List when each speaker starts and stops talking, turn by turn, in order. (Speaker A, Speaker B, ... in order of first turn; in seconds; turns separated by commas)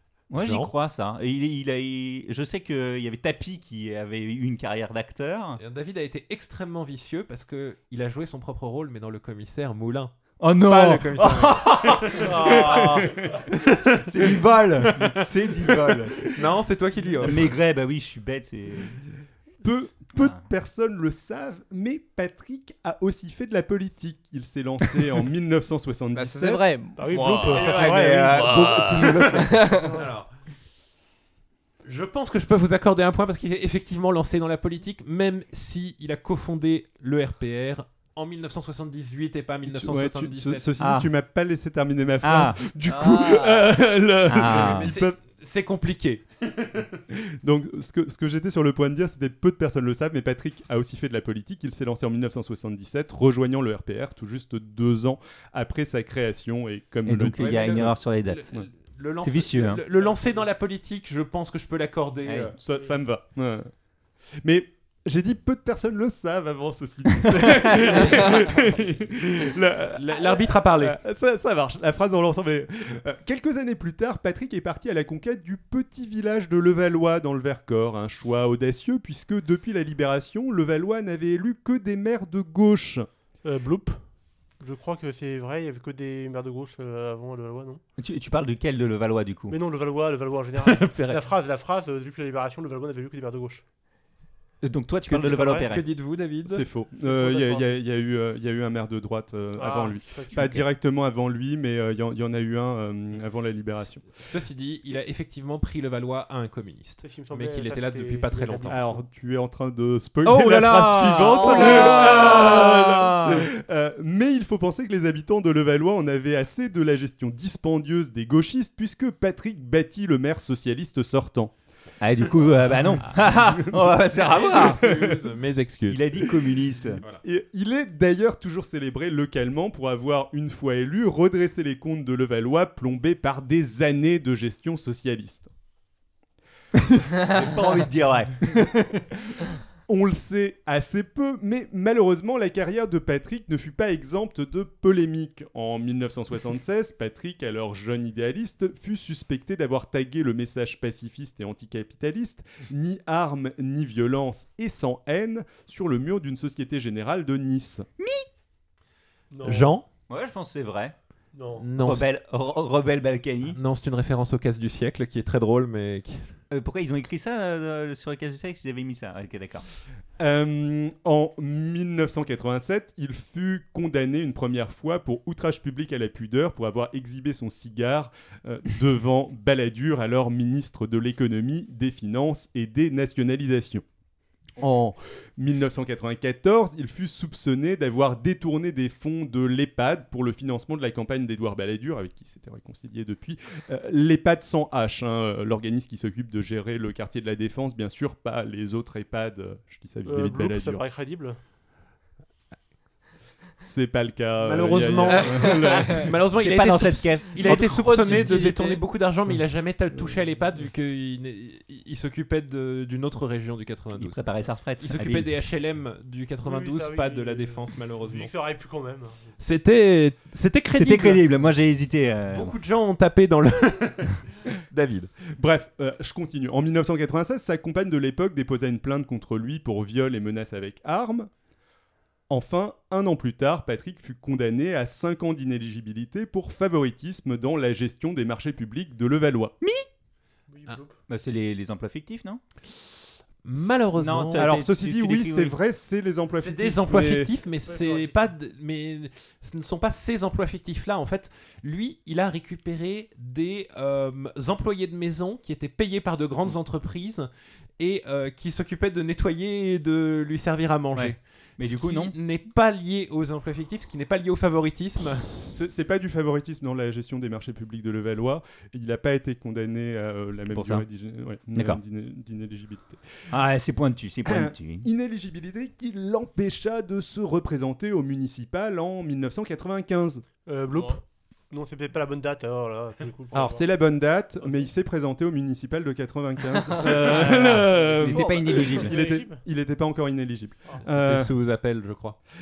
Speaker A: 0.3-5.6, Speaker B: 0.4-0.7, Speaker B: 5.6-12.8, Speaker A: 10.4-16.4, Speaker C: 12.1-13.3, Speaker B: 13.5-17.5, Speaker A: 17.2-19.1, Speaker D: 19.6-26.6, Speaker E: 26.1-30.0, Speaker C: 27.0-30.1, Speaker A: 27.2-29.8, Speaker B: 29.9-30.3, Speaker B: 31.8-40.7, Speaker D: 39.7-45.2, Speaker A: 40.8-41.1, Speaker A: 42.2-42.6, Speaker E: 42.9-43.7, Speaker A: 44.3-44.9, Speaker B: 44.5-46.9, Speaker D: 47.1-57.9, Speaker A: 57.1-58.5, Speaker B: 57.4-62.6, Speaker A: 59.2-59.8, Speaker A: 62.3-62.5, Speaker D: 62.6-63.7, Speaker D: 64.4-83.1, Speaker A: 67.6-67.9, Speaker B: 69.9-71.0, Speaker C: 83.4-84.0, Speaker C: 84.6-87.8, Speaker A: 88.0-89.6, Speaker C: 89.5-93.6, Speaker B: 90.6-91.2, Speaker A: 94.6-95.9, Speaker B: 95.1-96.7, Speaker C: 95.1-95.7, Speaker D: 96.5-104.0, Speaker C: 97.0-97.7, Speaker C: 99.6-100.6, Speaker B: 104.2-108.9, Speaker C: 107.0-109.0, Speaker D: 108.5-121.5, Speaker A: 110.2-113.5, Speaker E: 111.4-111.8, Speaker A: 122.0-124.8, Speaker B: 124.1-126.0, Speaker D: 124.8-125.2, Speaker A: 125.9-127.0, Speaker D: 127.2-135.5, Speaker A: 136.9-139.5, Speaker D: 139.9-157.9, Speaker A: 158.0-158.3, Speaker C: 159.3-159.7, Speaker B: 159.4-159.9, Speaker A: 160.1-160.9, Speaker C: 161.3-161.7, Speaker B: 161.6-162.1, Speaker A: 161.8-163.6, Speaker B: 163.5-166.3, Speaker A: 166.5-169.7, Speaker D: 170.2-183.8, Speaker D: 184.6-200.8, Speaker C: 200.1-201.4, Speaker D: 203.6-206.2, Speaker B: 204.4-214.2, Speaker E: 205.3-205.9, Speaker A: 206.4-208.3, Speaker E: 207.5-208.8, Speaker A: 214.0-215.3, Speaker B: 214.8-218.3, Speaker C: 216.4-219.3, Speaker B: 219.4-221.3, Speaker A: 220.7-222.6, Speaker B: 222.3-225.1, Speaker D: 225.4-231.3, Speaker D: 232.3-239.5, Speaker C: 240.5-241.0, Speaker A: 241.1-242.4, Speaker B: 243.4-244.5, Speaker A: 243.9-245.6, Speaker D: 244.3-247.3, Speaker B: 246.4-265.5, Speaker C: 247.7-248.2, Speaker A: 260.9-262.1, Speaker D: 265.5-273.0, Speaker A: 270.5-270.9, Speaker A: 271.6-271.8, Speaker A: 273.3-274.9, Speaker D: 274.2-280.2, Speaker C: 280.5-283.7, Speaker E: 280.7-281.0, Speaker D: 283.3-291.3, Speaker E: 286.6-287.0, Speaker A: 287.0-288.9, Speaker C: 287.2-289.4, Speaker E: 288.1-288.8, Speaker B: 290.8-292.2